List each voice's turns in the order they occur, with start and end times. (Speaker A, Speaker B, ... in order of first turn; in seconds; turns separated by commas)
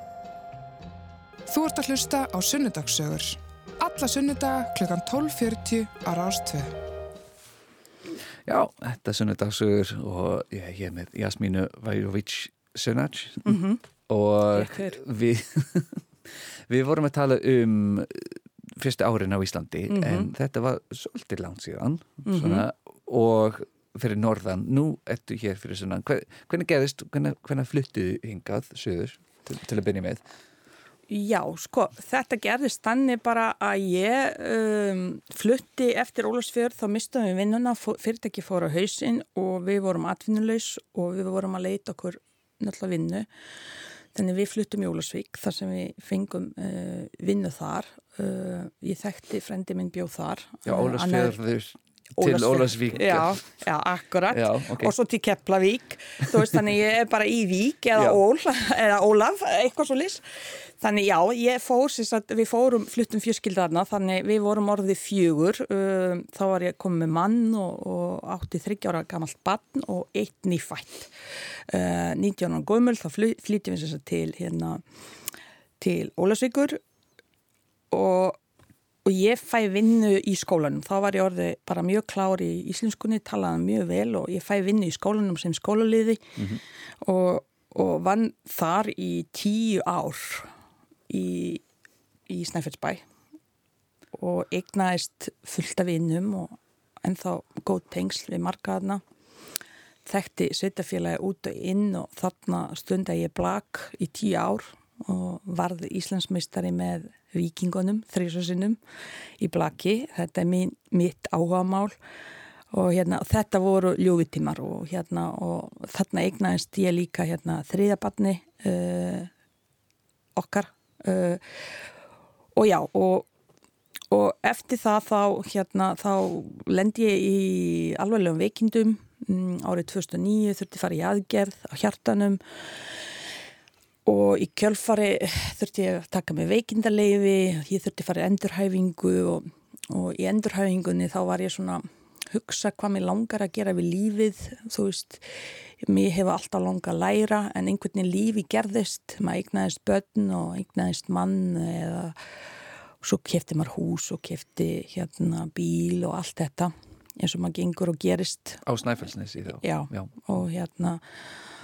Speaker A: 1.5-6.7, Speaker B: 8.4-30.2, Speaker C: 13.4-13.8, Speaker C: 14.6-14.9, Speaker C: 19.9-20.3, Speaker C: 22.2-22.6, Speaker C: 31.1-43.3, Speaker C: 44.1-51.4, Speaker B: 50.6-53.4, Speaker C: 52.2-60.2, Speaker B: 54.3-54.9, Speaker C: 60.8-71.1, Speaker C: 71.7-74.8, Speaker C: 75.8-76.8, Speaker C: 77.9-78.4, Speaker C: 79.0-86.3, Speaker C: 87.0-90.5, Speaker C: 91.1-91.6, Speaker C: 92.3-93.0, Speaker C: 94.1-99.0, Speaker C: 100.0-108.8, Speaker C: 109.4-112.0, Speaker C: 112.7-119.3, Speaker C: 120.3-121.4, Speaker C: 122.5-123.3, Speaker C: 124.1-132.4, Speaker C: 134.1-145.2, Speaker C: 145.8-152.1, Speaker C: 153.0-158.6, Speaker B: 158.6-160.2, Speaker C: 159.6-161.0